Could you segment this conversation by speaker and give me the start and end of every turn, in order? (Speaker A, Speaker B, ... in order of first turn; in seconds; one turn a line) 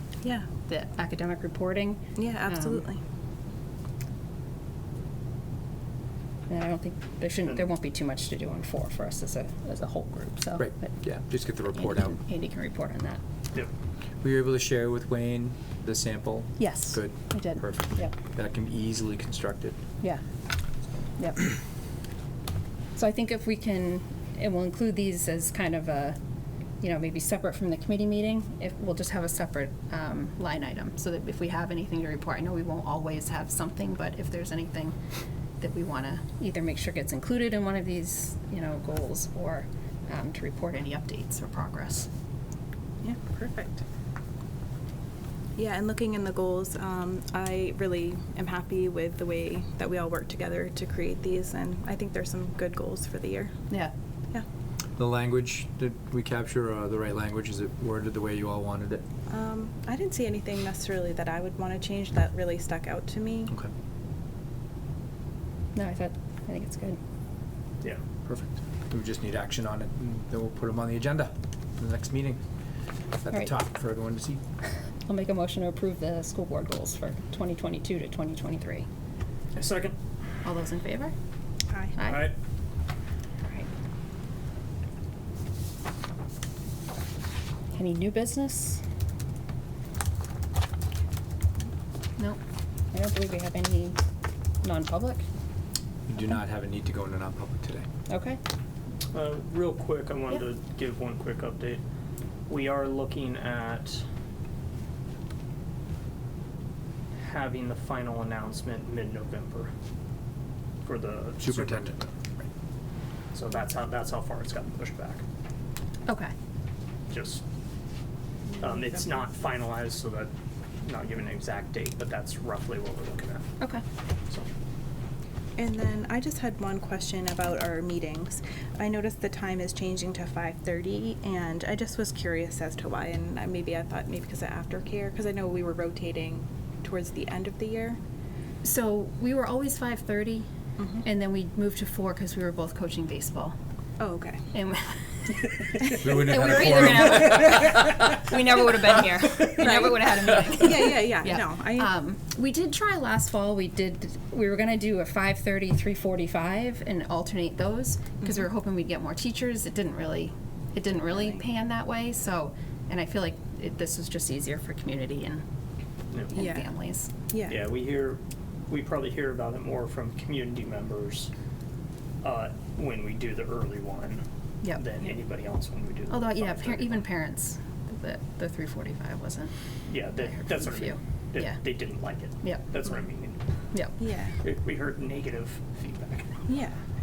Speaker A: 0.2-0.5
Speaker B: 0.6-2.9
Speaker A: 2.2-3.0
Speaker B: 6.5-10.9
Speaker C: 10.6-12.2
Speaker B: 11.8-13.2
Speaker C: 14.2-19.8
Speaker B: 16.6-18.1
Speaker B: 21.2-21.5
Speaker B: 23.0-26.2
Speaker B: 26.8-35.0
Speaker B: 35.6-42.1
Speaker A: 43.0-43.8
Speaker A: 45.6-53.6
Speaker C: 55.0-59.0
Speaker A: 59.3-63.5
Speaker B: 65.8-67.0
Speaker C: 68.2-72.4
Speaker C: 73.2-74.4
Speaker B: 75.1-78.9
Speaker D: 79.5-80.0
Speaker B: 80.4-81.1
Speaker A: 81.7-82.0
Speaker B: 82.0-82.3
Speaker D: 82.0-82.3
Speaker B: 87.7-88.8
Speaker B: 92.9-94.0
Speaker B: 94.6-95.3
Speaker C: 96.1-97.9
Speaker B: 98.1-98.4
Speaker D: 99.1-101.8
Speaker D: 102.5-104.0
Speaker D: 107.1-109.7
Speaker D: 110.8-112.1
Speaker C: 111.4-112.0
Speaker D: 113.3-115.2
Speaker B: 116.1-116.3
Speaker D: 117.1-117.4
Speaker D: 118.6-120.3
Speaker D: 120.8-123.5
Speaker A: 125.6-138.0
Speaker B: 138.6-140.5
Speaker A: 140.8-141.0
Speaker B: 141.0-143.6
Speaker A: 144.0-144.5
Speaker B: 144.5-165.4
Speaker C: 146.0-147.6
Speaker A: 149.6-151.9
Speaker D: 166.1-166.4
Speaker B: 166.3-167.1
Speaker A: 166.4-166.7
Speaker A: 167.3-167.6
Speaker D: 167.5-171.3
Speaker D: 172.2-177.1
Speaker B: 176.1-179.5
Speaker D: 179.9-183.4
Speaker B: 180.2-181.6
Speaker A: 184.0-184.4
Speaker D: 184.4-186.5
Speaker A: 186.5-186.8